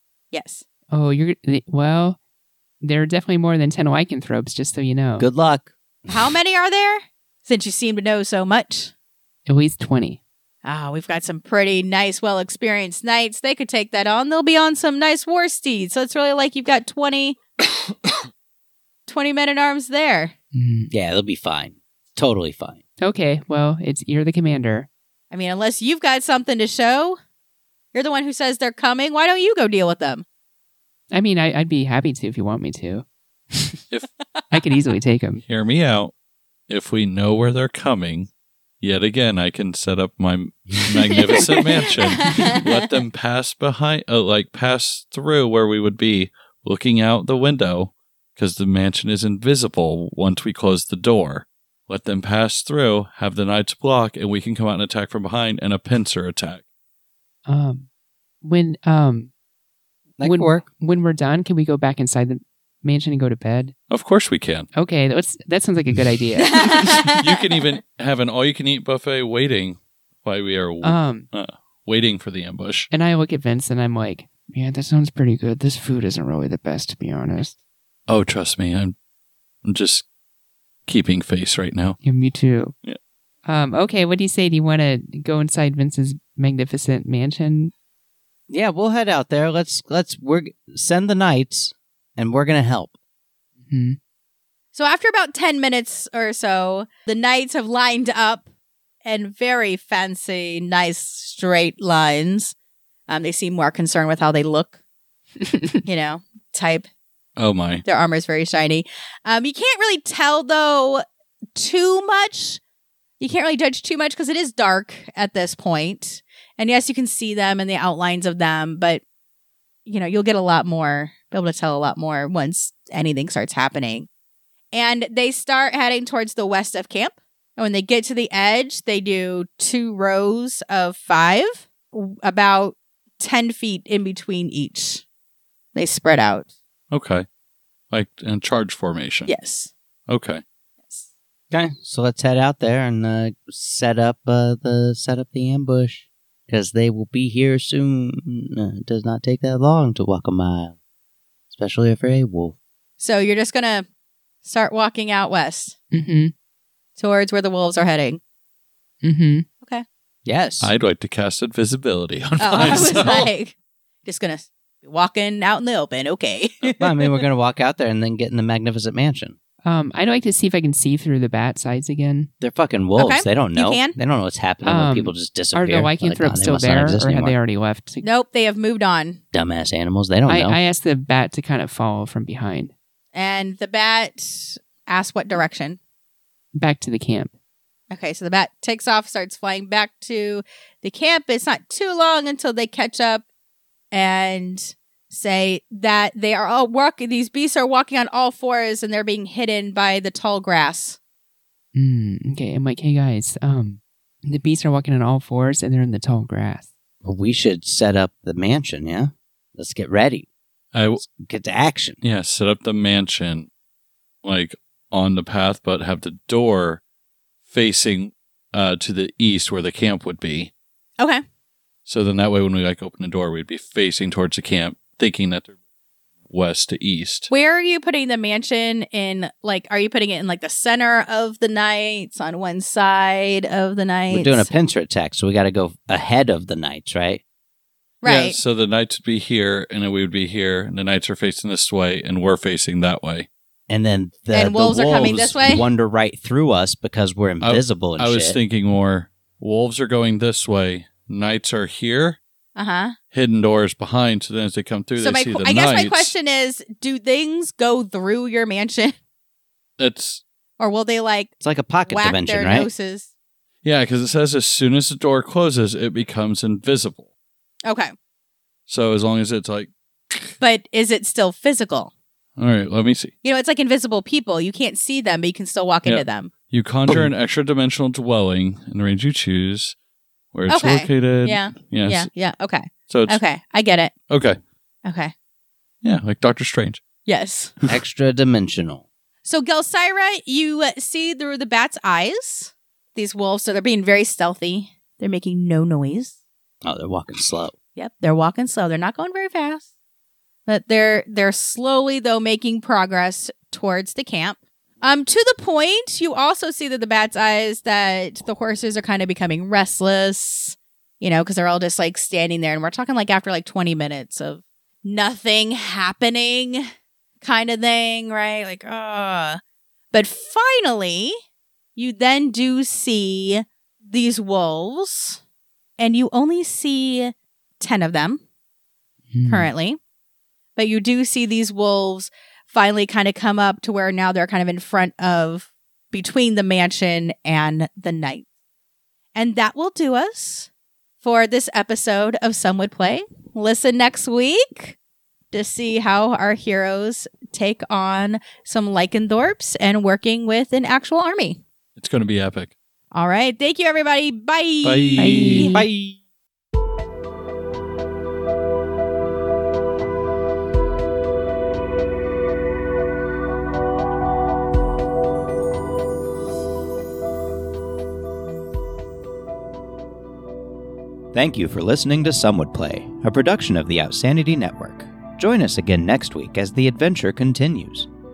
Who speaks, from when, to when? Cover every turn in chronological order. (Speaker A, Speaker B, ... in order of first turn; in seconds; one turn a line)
Speaker A: 0.3-0.6
Speaker B: 0.9-2.2
Speaker B: 2.8-5.3
Speaker C: 5.2-6.2
Speaker A: 6.1-8.9
Speaker B: 9.5-10.2
Speaker A: 10.6-17.4
Speaker A: 19.1-20.3
Speaker B: 20.5-20.9
Speaker C: 20.9-22.8
Speaker B: 23.0-24.9
Speaker A: 25.3-27.2
Speaker A: 27.9-30.2
Speaker B: 31.1-33.8
Speaker B: 34.5-35.4
Speaker D: 35.5-36.1
Speaker D: 36.7-38.3
Speaker D: 38.8-56.6
Speaker A: 41.3-42.8
Speaker B: 57.5-57.9
Speaker B: 58.4-59.3
Speaker C: 60.2-60.6
Speaker B: 60.2-63.8
Speaker D: 63.9-64.7
Speaker B: 64.7-66.7
Speaker A: 66.5-67.6
Speaker D: 66.7-72.9
Speaker B: 70.8-71.3
Speaker B: 72.9-77.5
Speaker D: 78.1-79.0
Speaker D: 79.7-80.0
Speaker D: 80.9-82.0
Speaker B: 82.0-82.7
Speaker B: 83.5-87.7
Speaker C: 88.5-92.9
Speaker B: 93.7-94.0
Speaker A: 94.7-98.5
Speaker A: 99.0-102.5
Speaker A: 103.1-104.7
Speaker A: 105.8-106.9
Speaker D: 107.4-107.8
Speaker A: 107.8-111.0
Speaker A: 111.6-112.6
Speaker A: 113.2-119.0
Speaker A: 119.9-124.1
Speaker A: 124.7-135.0
Speaker A: 135.8-136.5
Speaker D: 136.9-137.3
Speaker D: 137.9-139.3
Speaker A: 139.3-139.7
Speaker D: 140.1-140.4
Speaker C: 141.5-150.8
Speaker C: 151.5-152.6
Speaker A: 153.0-153.9
Speaker A: 154.4-155.8
Speaker B: 155.9-156.3
Speaker A: 157.0-158.2
Speaker B: 159.0-159.5
Speaker C: 160.3-160.7
Speaker D: 160.6-163.3
Speaker A: 162.4-167.1
Speaker C: 166.8-169.3
Speaker B: 169.6-172.3
Speaker C: 172.4-177.4
Speaker A: 173.0-174.0
Speaker B: 174.6-178.1
Speaker A: 178.0-179.2
Speaker C: 179.3-180.6
Speaker B: 180.3-182.7
Speaker A: 183.1-185.8
Speaker B: 186.6-187.3
Speaker A: 187.9-193.2
Speaker A: 193.9-201.0
Speaker B: 201.8-206.7
Speaker C: 207.0-210.3
Speaker D: 210.7-211.0
Speaker C: 211.1-212.0
Speaker D: 212.0-213.5
Speaker D: 214.2-216.8
Speaker D: 217.5-220.5
Speaker D: 221.9-225.5
Speaker D: 226.3-227.3
Speaker A: 227.3-234.5
Speaker C: 234.1-237.2
Speaker A: 238.0-238.4
Speaker D: 238.0-243.3
Speaker C: 243.7-248.4
Speaker A: 244.3-245.7
Speaker D: 247.4-252.2
Speaker A: 252.6-252.9
Speaker D: 253.1-256.1
Speaker A: 255.0-258.9
Speaker D: 259.8-260.2
Speaker A: 260.6-261.3
Speaker C: 261.4-262.7
Speaker A: 261.9-263.1
Speaker D: 263.6-267.1
Speaker A: 267.6-267.9
Speaker D: 268.7-270.4
Speaker A: 270.4-271.9
Speaker D: 272.4-273.1
Speaker A: 273.2-276.3
Speaker D: 275.9-279.8
Speaker D: 280.3-282.1
Speaker A: 280.5-283.9
Speaker D: 282.9-283.2
Speaker D: 284.1-284.4
Speaker A: 284.9-285.1
Speaker D: 285.8-286.8
Speaker A: 287.1-287.5
Speaker C: 287.7-288.8
Speaker A: 289.2-296.1
Speaker C: 296.6-297.6
Speaker A: 297.8-299.6
Speaker A: 300.5-316.6
Speaker A: 317.2-319.4
Speaker A: 319.9-321.2
Speaker A: 321.8-325.2
Speaker A: 325.8-328.2
Speaker B: 329.1-329.5
Speaker A: 329.3-329.8
Speaker A: 330.6-338.3
Speaker A: 339.1-340.5
Speaker A: 341.0-344.8
Speaker A: 345.3-351.4
Speaker D: 351.8-352.5
Speaker A: 352.9-355.5
Speaker D: 354.6-355.6
Speaker B: 355.0-355.6
Speaker C: 355.5-356.0
Speaker C: 371.1-377.9